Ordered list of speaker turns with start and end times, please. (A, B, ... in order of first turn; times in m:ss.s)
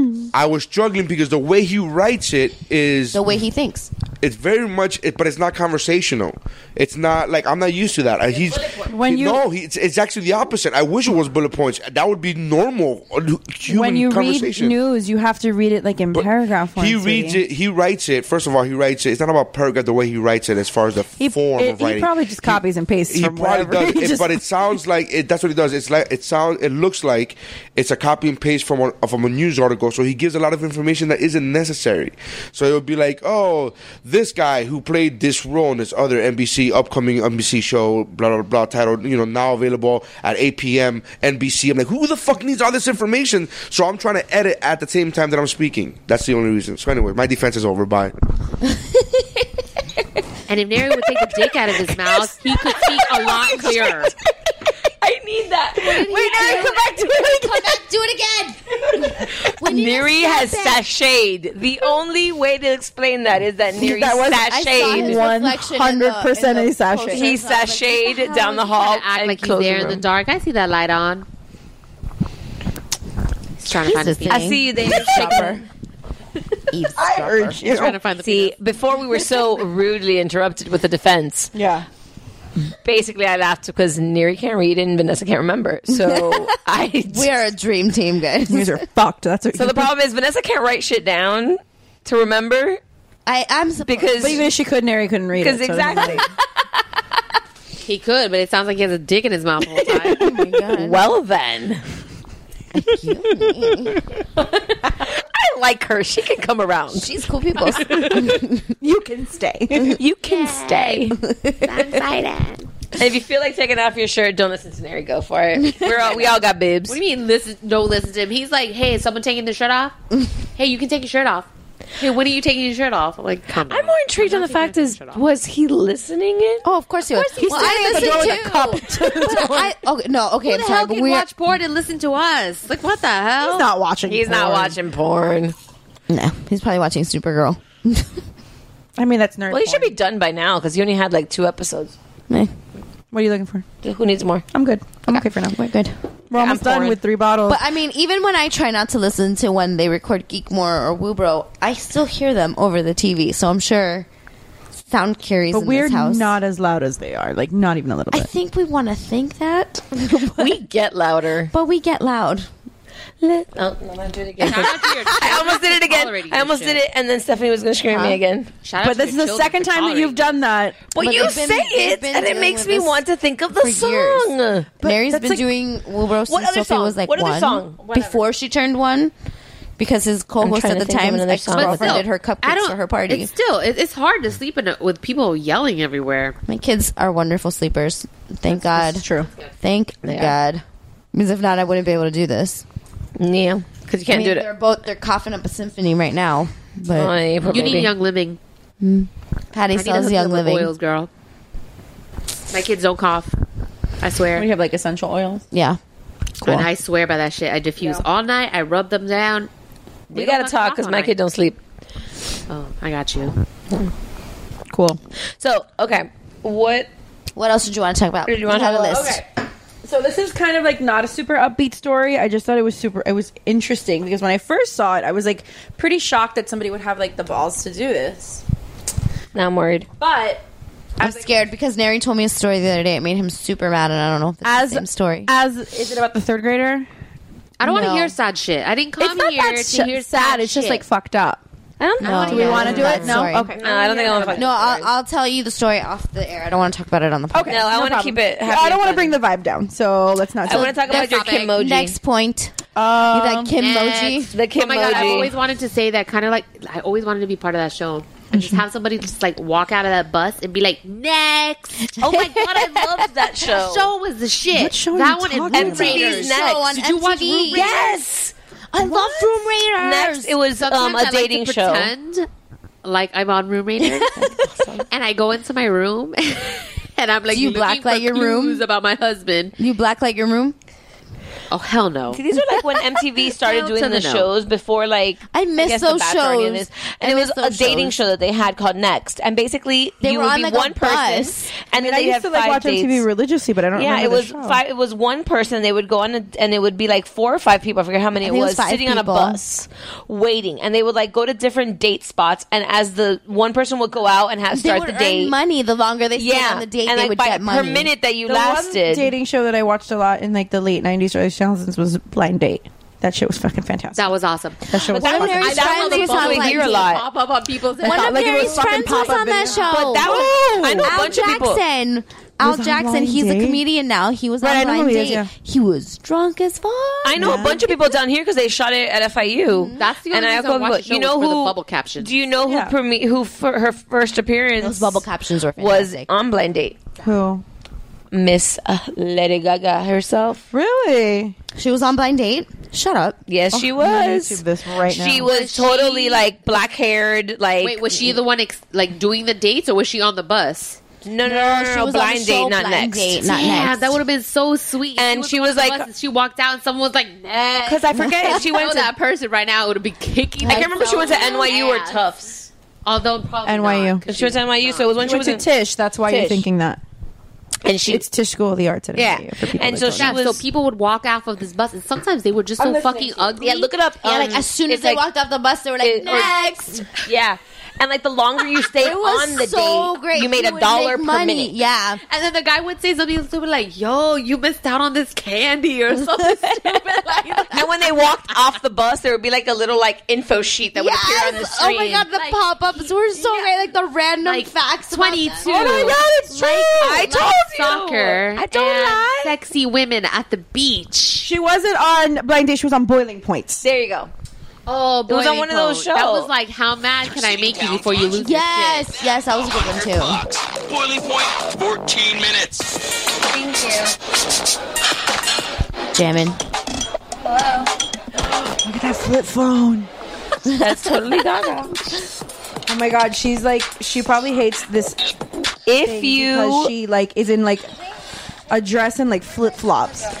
0:00.3-0:03.2 A
0:03.1-0:03.9 B
0:04.2-0:14.8 A
0:08.3-0:09.0 C
0:08.9-0:09.4 D
0:13.7-0:17.4 D
0:16.1-0:48.1 A
0:21.2-0:24.4 D
0:48.6-0:49.4 B
0:50.5-0:54.1 E
0:55.0-0:56.9 C
0:55.8-1:00.8 B
0:56.0-0:57.6 D
0:59.0-1:05.2 C
1:03.8-1:07.3 D
1:04.5-1:08.6 B
1:07.1-1:10.0 C
1:08.4-1:11.2 E
1:13.6-1:14.6 E
1:13.7-1:15.6 B
1:14.3-1:15.6 C
1:16.7-1:17.4 B
1:16.7-1:18.6 E
1:17.0-1:18.0 D
1:18.2-1:21.5 C
1:21.5-1:21.8 D
1:22.8-1:27.4 C
1:25.9-1:26.5 B
1:27.0-1:28.8 B
1:28.5-1:29.9 D
1:29.5-1:32.8 C
1:33.2-1:34.5 B
1:33.8-1:34.4 C
1:34.2-1:36.2 D
1:35.4-1:36.3 C
1:37.8-1:40.2 E
1:40.0-1:41.1 B
1:40.7-1:41.8 C
1:42.7-1:44.0 B
1:43.4-1:47.2 C
1:46.9-1:48.7 B
1:47.7-1:48.3 C
1:48.8-1:50.0 D
1:49.8-1:51.2 C
1:50.2-1:52.6 E
1:51.2-1:52.0 B
1:53.0-1:57.0 C
1:55.6-1:55.9 B
1:56.0-2:00.0 E
2:00.6-2:01.5 E
2:02.0-2:05.2 E
2:03.6-2:06.6 C
2:06.6-2:11.3 B
2:07.1-2:09.4 E
2:07.4-2:09.7 D
2:10.4-2:13.7 E
2:13.4-2:14.8 D
2:14.0-2:15.5 C
2:16.1-2:18.2 B
2:19.0-2:19.9 D
2:19.5-2:21.9 C
2:23.1-2:23.6 D
2:23.8-2:24.4 C
2:24.5-2:25.6 D
2:25.1-2:25.9 B
2:26.3-2:27.0 C
2:26.3-2:27.6 D
2:27.5-2:34.1 B
2:34.9-2:36.4 B
2:35.5-2:38.3 D
2:38.1-2:40.5 B
2:40.3-2:41.5 C
2:41.5-2:42.5 B
2:43.2-2:48.5 C
2:44.4-2:46.8 E
2:48.6-2:50.4 E
2:48.8-2:50.8 D
2:50.9-2:54.7 C
2:51.0-2:53.0 B
2:53.6-2:59.1 B
2:54.8-2:55.4 D
2:56.3-2:57.8 C
2:57.8-2:58.2 D
2:59.8-3:03.3 B
3:00.4-3:02.0 C
3:01.5-3:06.4 E
3:06.5-3:09.1 B
3:08.5-3:09.3 D
3:09.6-3:12.6 B
3:10.0-3:10.4 C
3:13.2-3:14.5 C
3:14.1-3:17.2 B
3:16.9-3:17.9 C
3:17.5-3:18.4 E
3:18.8-3:20.7 B
3:19.7-3:21.1 E
3:22.5-3:23.3 E
3:24.0-3:24.5 E
3:24.4-3:25.4 D
3:25.5-3:25.8 B
3:26.4-3:29.5 E
3:30.1-3:31.1 E
3:30.1-3:31.6 C
3:32.5-3:33.4 E
3:34.7-3:35.0 D
3:35.4-3:36.9 C
3:37.3-3:39.2 B
3:38.2-3:39.2 C
3:38.9-3:39.2 D
3:39.8-3:48.4 D
3:49.3-3:49.9 C
3:50.0-3:50.4 D
3:51.0-3:51.4 D
3:51.0-3:55.3 B
3:54.4-3:56.9 D
3:57.6-4:00.8 E
3:57.6-3:58.1 B
3:57.7-3:58.0 D
3:59.0-4:01.4 D
4:01.8-4:04.9 C
4:02.0-4:03.5 B
4:02.2-4:03.0 E
4:02.2-4:04.5 D
4:04.3-4:07.6 B
4:07.3-4:10.8 D
4:07.5-4:09.2 C
4:10.4-4:12.0 C
4:10.5-4:11.6 E
4:11.0-4:14.3 B
4:12.7-4:13.5 D
4:13.6-4:27.9 E
4:14.2-4:15.3 C
4:14.9-4:15.2 D
4:22.0-4:22.6 B
4:22.0-4:23.9 C
4:24.5-4:26.2 D
4:25.5-4:26.8 C
4:25.6-4:27.7 B
4:27.5-4:28.3 C
4:28.7-4:30.4 B
4:28.8-4:29.2 D
4:29.8-4:31.9 C
4:30.6-4:32.3 E
4:32.8-4:34.2 E
4:33.8-4:34.3 B
4:34.5-4:34.8 C
4:34.9-4:39.5 E
4:37.3-4:38.6 B
4:39.6-4:40.6 B
4:41.5-4:42.2 E
4:42.1-4:53.0 C
4:43.3-4:44.3 E
4:45.3-4:48.0 B
4:50.0-4:51.5 B
4:51.7-4:54.6 D
4:53.7-5:05.3 C
4:58.2-4:59.4 B
5:04.5-5:07.9 B
5:06.2-5:09.1 C
5:08.2-5:14.1 D
5:13.9-5:19.5 E
5:14.7-5:15.5 D
5:14.9-5:16.9 B
5:15.0-5:17.0 C
5:17.8-5:27.6 B
5:17.8-5:21.1 D
5:19.6-5:21.6 C
5:22.4-5:23.6 D
5:24.4-5:25.3 D
5:27.0-5:35.0 C
5:27.2-5:27.6 D
5:29.5-5:29.9 B
5:29.8-5:32.1 E
5:32.4-5:32.7 D
5:34.6-5:36.1 B
5:35.6-5:36.8 C
5:37.0-5:37.4 D
5:38.1-5:40.4 C
5:40.5-5:41.3 D
5:41.6-5:43.2 B
5:43.3-5:48.2 C
5:43.5-5:45.3 D
5:45.2-5:46.3 E
5:47.6-5:50.8 E
5:51.0-5:53.3 C
5:51.2-5:54.0 B
5:53.2-6:02.0 E
5:55.0-5:55.8 C
5:57.6-5:58.9 C
6:00.4-6:02.5 C
6:02.8-6:04.9 E
6:03.4-6:04.0 D
6:04.1-6:05.4 C
6:05.0-6:06.8 D
6:06.0-6:06.4 C
6:07.6-6:08.0 C
6:07.8-6:10.1 D
6:08.9-6:10.4 C
6:10.0-6:13.7 E
6:12.6-6:13.6 D
6:13.4-6:15.0 C
6:14.0-6:16.9 B
6:15.8-6:21.5 C
6:18.7-6:22.0 B
6:22.1-6:27.7 E
6:27.5-6:32.1 C
6:30.7-6:35.8 B
6:32.1-6:33.5 E
6:34.2-6:41.3 E
6:35.4-6:37.0 D
6:35.5-6:39.3 C
6:41.2-6:43.6 D
6:43.6-6:44.1 C
6:44.6-6:49.0 E
6:45.1-6:46.3 C
6:48.1-6:50.2 B
6:50.7-6:52.7 F
6:53.3-6:53.9 C
6:55.9-6:56.4 B
6:58.2-6:59.9 D
7:00.5-7:01.8 C
7:02.7-7:05.0 D
7:05.6-7:06.7 C
7:05.8-7:07.7 D
7:08.5-7:10.0 D